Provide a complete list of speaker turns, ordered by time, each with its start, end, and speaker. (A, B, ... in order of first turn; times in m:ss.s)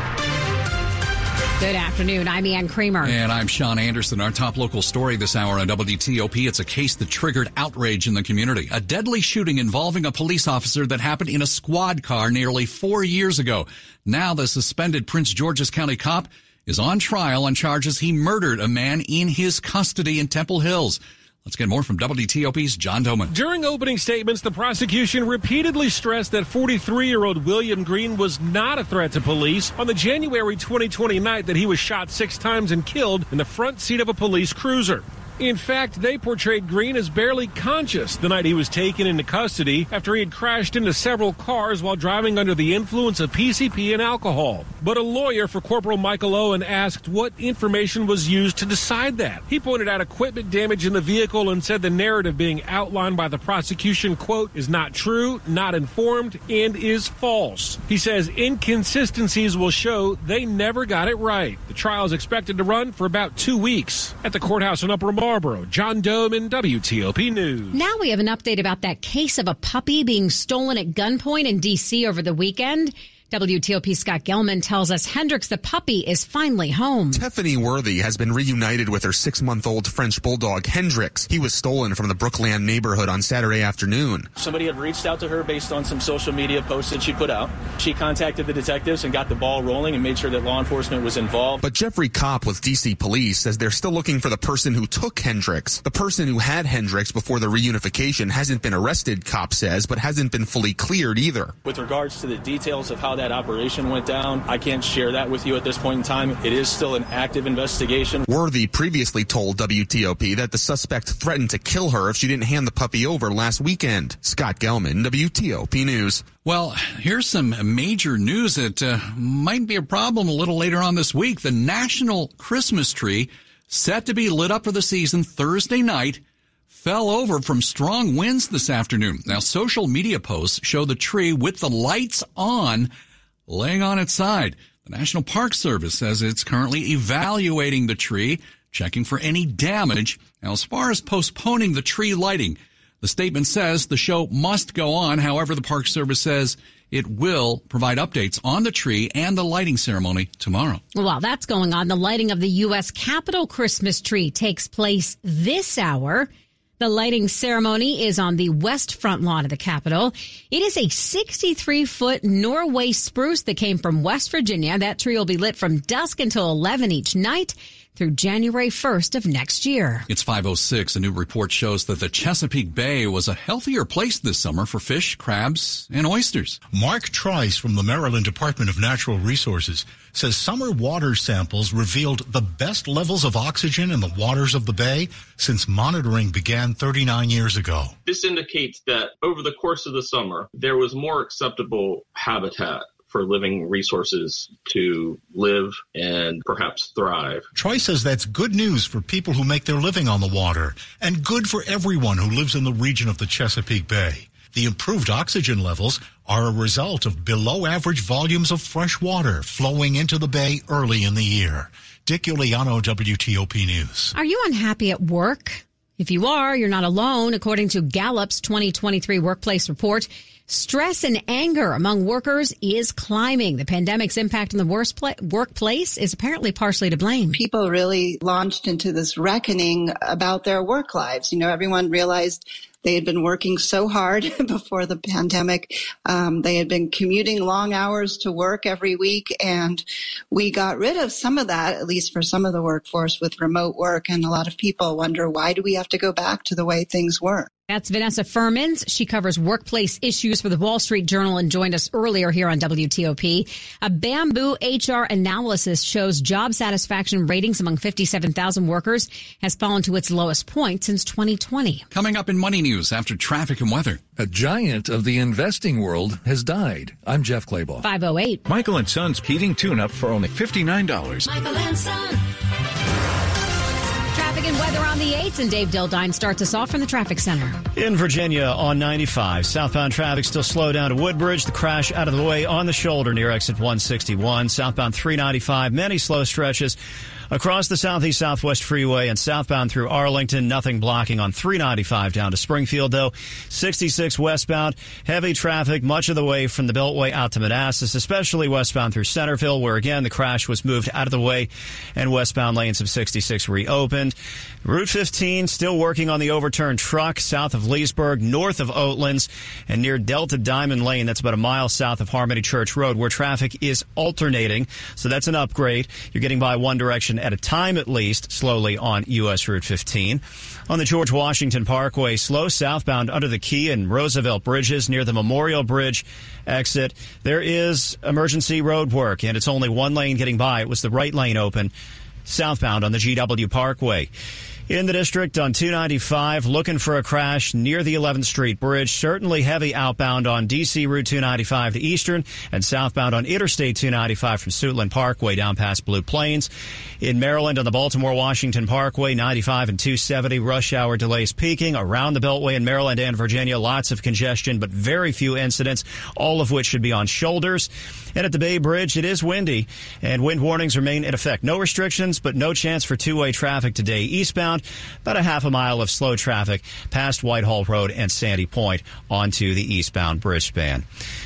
0:01.6-0:03.1 A
0:03.0-0:23.3 B
0:23.3-1:07.7 C
1:07.7-1:17.2 A
1:17.1-1:24.3 D
1:24.4-1:31.6 E
1:31.6-1:41.5 D
1:41.6-1:48.2 E
1:48.3-1:56.3 D
1:56.4-2:06.2 B
2:06.7-2:12.9 B
2:13.5-2:30.8 B
2:30.9-2:36.3 A
2:36.8-2:50.0 A
2:50.1-2:56.6 B
2:56.7-3:07.9 F
3:08.0-3:17.5 G
3:17.5-3:34.1 F
3:34.1-3:47.4 A
3:47.3-4:07.5 H
4:07.7-4:21.8 A
4:21.9-4:24.0 B
4:24.2-4:27.8 I
4:27.8-4:28.4 A
4:28.5-4:31.2 J
4:31.2-4:32.2 A
4:34.1-4:37.6 A
4:37.8-4:46.8 K
4:47.3-5:31.7 K
5:32.3-5:34.1 K
5:34.7-5:46.5 K
5:47.0-6:10.8 K